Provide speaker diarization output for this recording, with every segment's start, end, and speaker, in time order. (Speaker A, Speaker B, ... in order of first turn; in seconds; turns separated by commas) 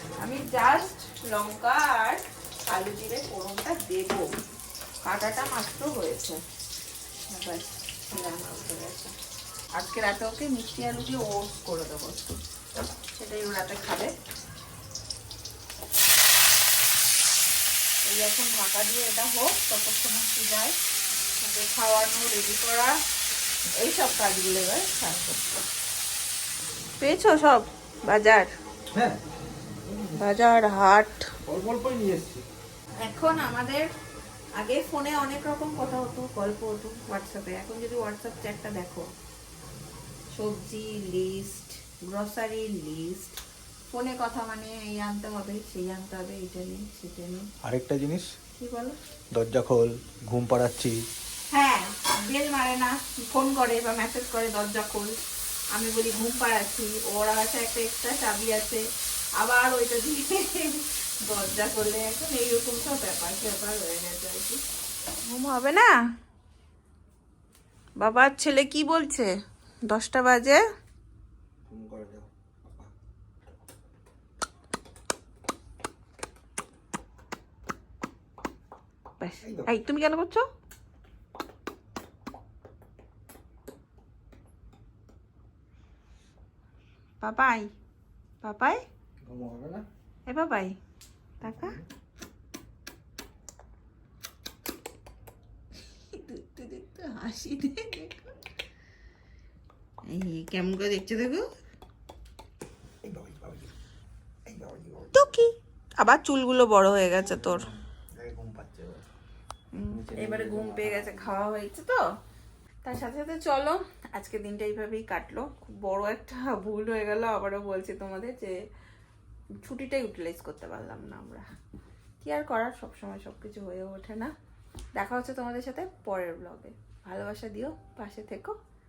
Speaker A: 0.2-4.3, Speaker A: 5.0-6.4, Speaker A: 7.3-9.1, Speaker A: 9.7-12.4, Speaker A: 13.1-14.1, Speaker A: 18.1-20.8, Speaker A: 21.4-23.0, Speaker A: 23.7-25.4, Speaker A: 27.0-28.5, Speaker B: 28.9-29.2, Speaker B: 29.9-30.2, Speaker A: 30.2-31.2, Speaker B: 31.5-32.4, Speaker A: 33.0-33.9, Speaker A: 34.6-39.1, Speaker A: 40.3-43.4, Speaker A: 43.9-47.5, Speaker B: 47.6-48.3, Speaker A: 48.5-49.0, Speaker B: 49.3-51.0, Speaker A: 51.5-55.1, Speaker A: 55.7-58.8, Speaker A: 59.4-64.6, Speaker A: 65.3-65.9, Speaker A: 68.0-69.3, Speaker A: 69.9-70.6, Speaker B: 71.7-72.9, Speaker A: 79.2-80.5, Speaker B: 79.4-79.7, Speaker A: 87.2-87.7, Speaker A: 88.4-88.8, Speaker B: 89.2-89.8, Speaker A: 90.3-90.8, Speaker A: 91.4-91.8, Speaker B: 91.5-91.8, Speaker A: 96.0-98.3, Speaker A: 100.1-101.5, Speaker B: 103.0-103.7, Speaker B: 104.5-105.3, Speaker A: 105.1-107.7, Speaker B: 107.2-109.0, Speaker A: 109.7-112.0, Speaker B: 109.8-111.4, Speaker A: 112.8-118.5, Speaker A: 119.6-121.5, Speaker A: 122.2-124.3, Speaker A: 125.0-128.5